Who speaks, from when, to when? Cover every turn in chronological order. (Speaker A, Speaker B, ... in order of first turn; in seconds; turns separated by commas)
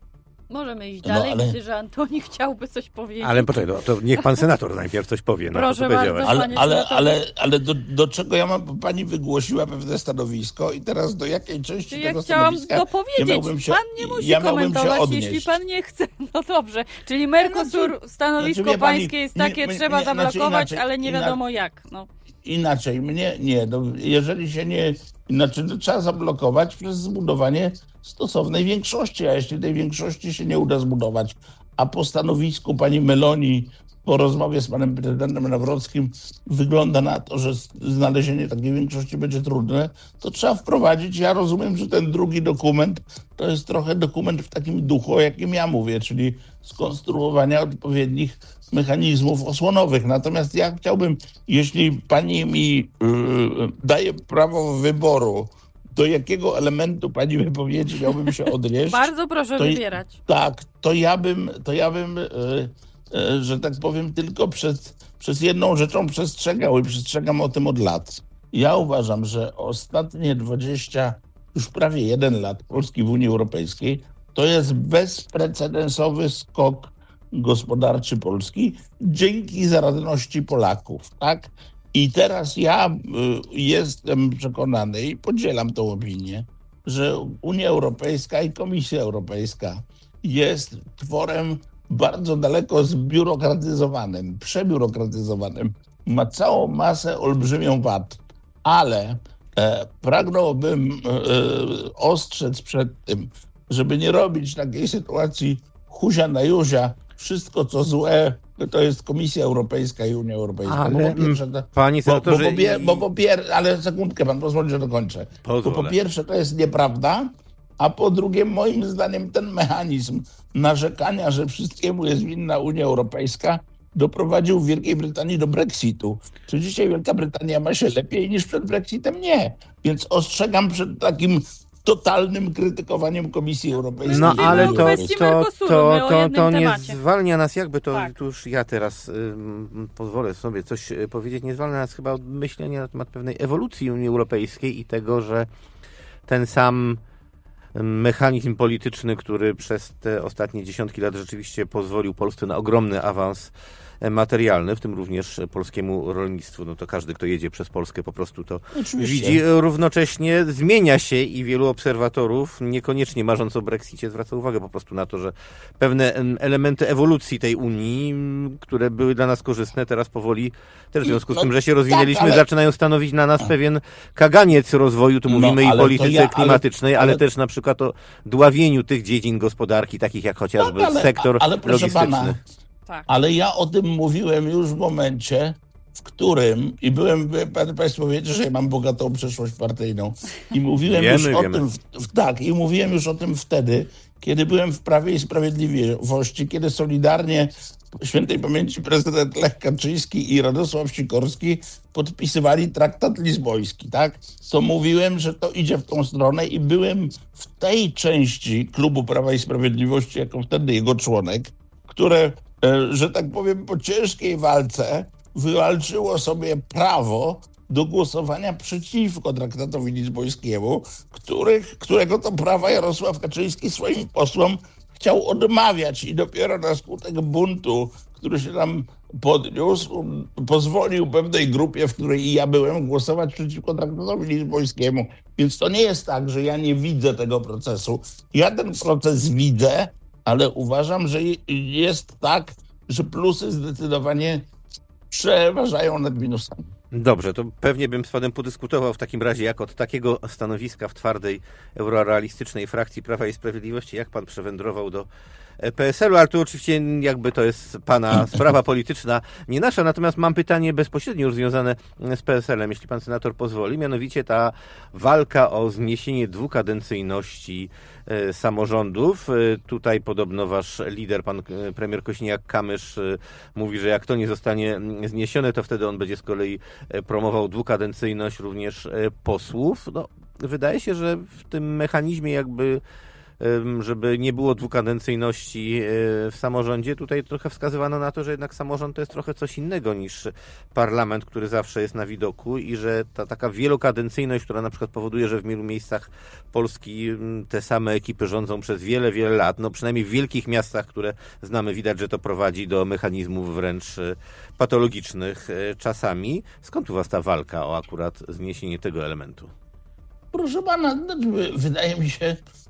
Speaker A: 0.5-4.3, Speaker B: 1.0-1.6, Speaker C: 3.2-6.4, Speaker A: 5.5-7.2, Speaker B: 6.2-15.6, Speaker A: 11.9-22.1, Speaker B: 17.4-21.4, Speaker B: 22.4-135.1, Speaker A: 58.9-60.2, Speaker C: 110.7-113.0, Speaker C: 115.4-116.0, Speaker A: 134.0-137.0, Speaker C: 134.1-145.5, Speaker C: 146.3-147.0, Speaker C: 147.7-182.4, Speaker B: 158.7-159.4, Speaker B: 171.0-172.4, Speaker B: 175.3-177.2, Speaker B: 180.6-182.4, Speaker B: 183.1-244.5, Speaker C: 190.8-191.6, Speaker B: 245.1-246.7, Speaker C: 246.9-255.1, Speaker C: 255.6-282.8, Speaker C: 283.4-309.5, Speaker B: 310.3-312.4